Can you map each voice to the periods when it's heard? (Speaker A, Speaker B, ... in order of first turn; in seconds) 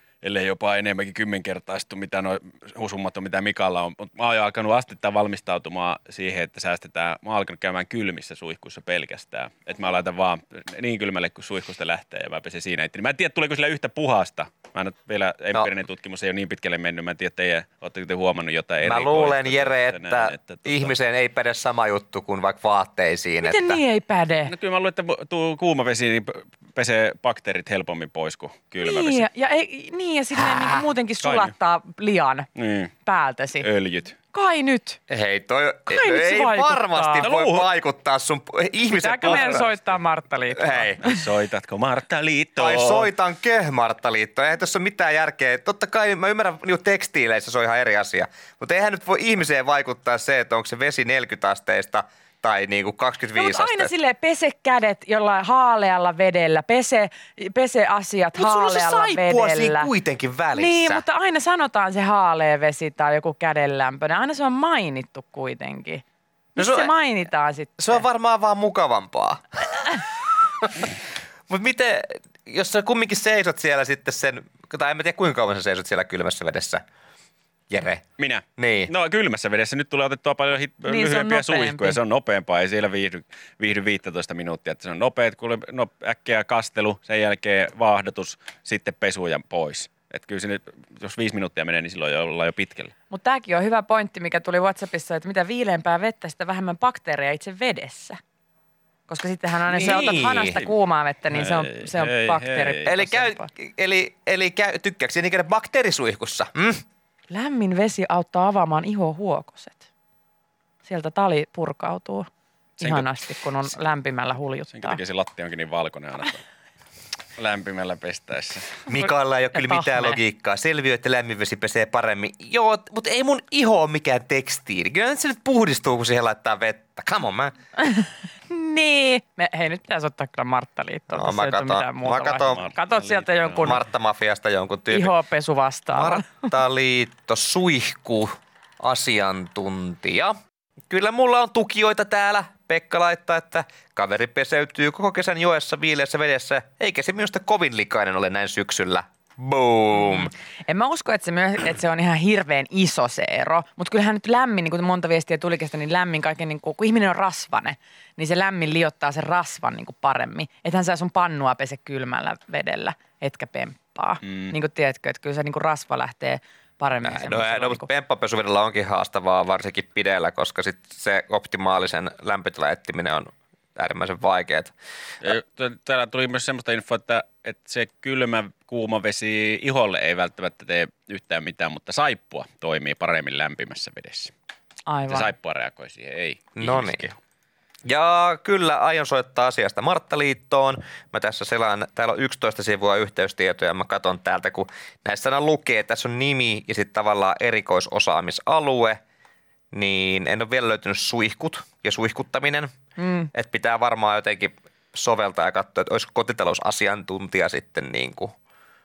Speaker A: 0.2-20.9, 24.5-29.3, 31.2-31.5, 32.6-32.9, 33.6-34.2, 37.2-37.7, 39.2-39.7, 41.0-43.1, 78.2-92.9, 99.8-100.7, 101.3-102.9, 112.8-113.1, 114.7-116.4, 117.4-118.8, 132.5-133.7, 175.2-184.3, 185.1-187.2
Speaker B: 18.8-23.8, 35.1-39.7, 40.5-41.0, 42.6-53.9, 58.4-61.0, 66.6-66.9, 67.8-69.9, 70.6-70.9, 71.5-76.8, 77.7-78.1, 78.6-78.9, 99.7-100.6, 102.9-106.8, 118.9-127.5, 131.1-132.6, 133.6-135.1, 135.9-140.4, 140.9-150.3, 167.1-174.7, 186.6-187.1, 187.8-199.0, 199.7-202.7, 203.3-208.4
Speaker C: 23.4-24.5, 28.8-32.5, 33.0-33.7, 34.3-35.0, 35.9-37.3, 38.9-41.2, 53.4-59.9, 60.5-66.0, 66.6-68.0, 80.9-82.0, 93.1-98.2, 99.1-103.5, 107.3-109.9, 110.8-112.3, 112.8-115.0, 119.5-120.2, 127.8-133.8, 134.9-136.5, 149.9-167.9, 184.9-185.3, 203.0-203.3